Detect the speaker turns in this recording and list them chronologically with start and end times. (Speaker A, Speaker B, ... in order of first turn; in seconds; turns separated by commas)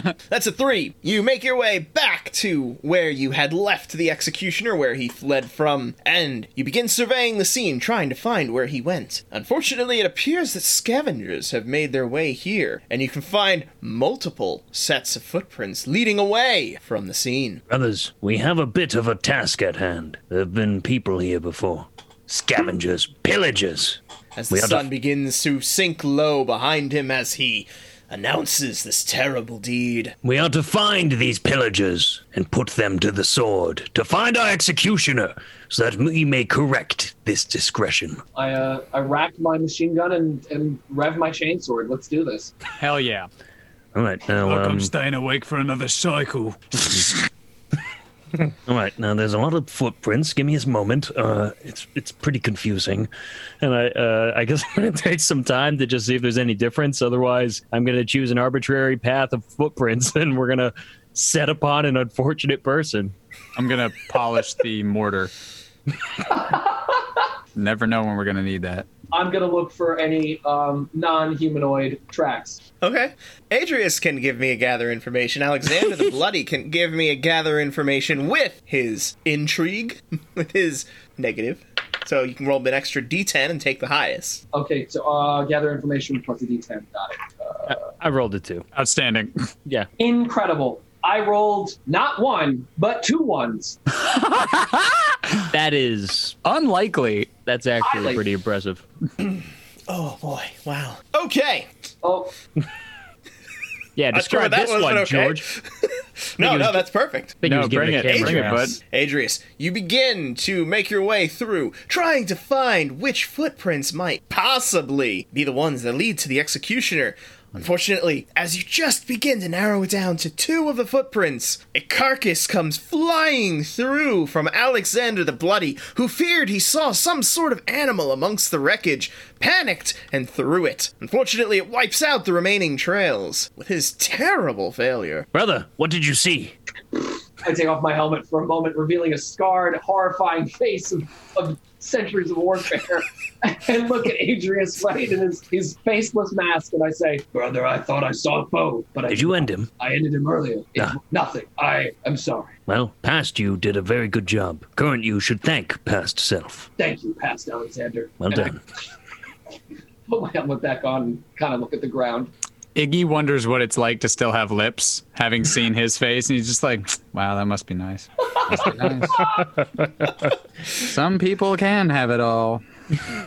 Speaker A: 0.3-17.6, Speaker B: 17.7-24.9, Speaker A: 24.4-30.1, Speaker B: 30.2-38.2, Speaker C: 38.4-42.5, Speaker D: 42.8-43.3, Speaker B: 43.9-44.9, Speaker E: 44.4-47.2, Speaker B: 48.7-53.1, Speaker F: 53.6-63.1, Speaker D: 63.6-65.3, Speaker C: 66.3-67.2, Speaker D: 67.5-68.9, Speaker C: 69.1-72.6, Speaker A: 72.8-84.4, Speaker C: 84.5-87.8, Speaker F: 87.7-88.7, Speaker D: 88.8-89.3, Speaker C: 90.0-93.8, Speaker D: 94.0-95.2, Speaker F: 95.5-96.4, Speaker D: 96.4-97.3, Speaker F: 97.5-98.8, Speaker C: 97.8-98.2, Speaker A: 99.9-101.7, Speaker C: 102.0-102.3, Speaker F: 104.0-105.5, Speaker A: 104.1-135.3, Speaker F: 106.4-106.8, Speaker F: 107.4-108.8, Speaker D: 107.4-108.8, Speaker B: 135.3-136.6, Speaker C: 137.4-152.5, Speaker B: 149.1-149.7, Speaker B: 152.7-156.7, Speaker C: 156.8-158.6, Speaker B: 158.2-158.6, Speaker C: 160.1-162.3, Speaker D: 162.8-169.4, Speaker D: 170.8-172.6